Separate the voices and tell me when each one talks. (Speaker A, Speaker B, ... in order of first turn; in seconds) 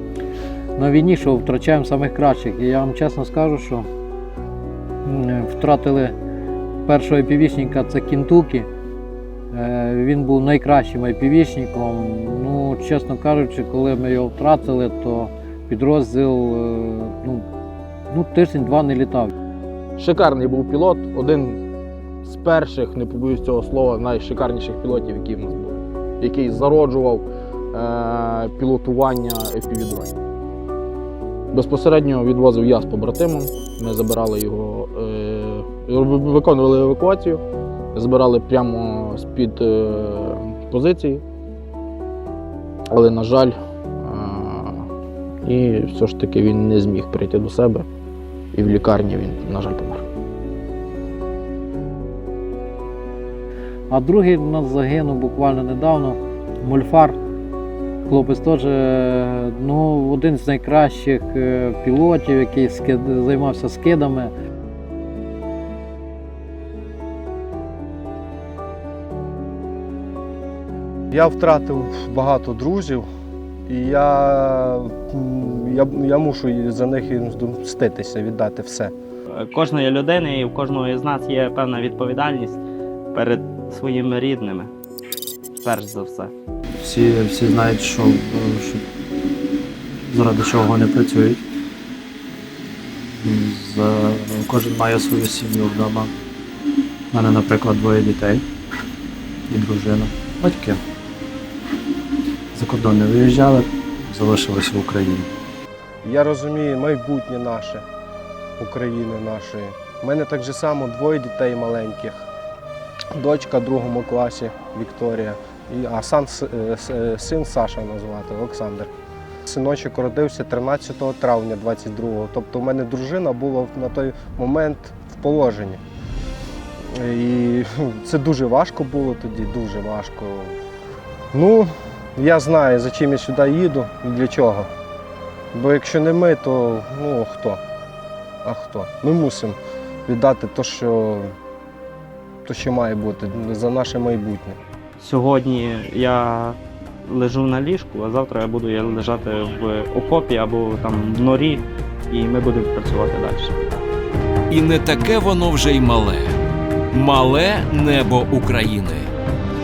Speaker A: 0.8-3.9, 5.0-6.1, 6.8-8.7, 9.5-17.4, 18.1-19.3, 53.9-57.2, 58.0-64.3
Speaker B: 20.0-21.6, 22.2-30.1, 31.5-37.4, 37.9-41.2, 42.9-44.9, 45.4-47.9, 48.5-50.0
Speaker C: 71.1-73.1, 73.7-78.9, 106.0-107.8, 108.6-112.3, 113.1-118.9, 119.5-125.8, 126.9-130.6, 131.3-134.7, 135.5-137.6, 138.4-141.3, 142.4-144.6
Speaker D: 79.3-82.6, 83.1-84.7, 85.6-86.3, 145.0-153.5
Speaker E: 86.8-88.8, 90.0-91.4, 93.2-96.1, 97.1-98.4, 99.5-100.8, 102.5-105.3
Speaker F: 154.5-156.4, 156.9-159.1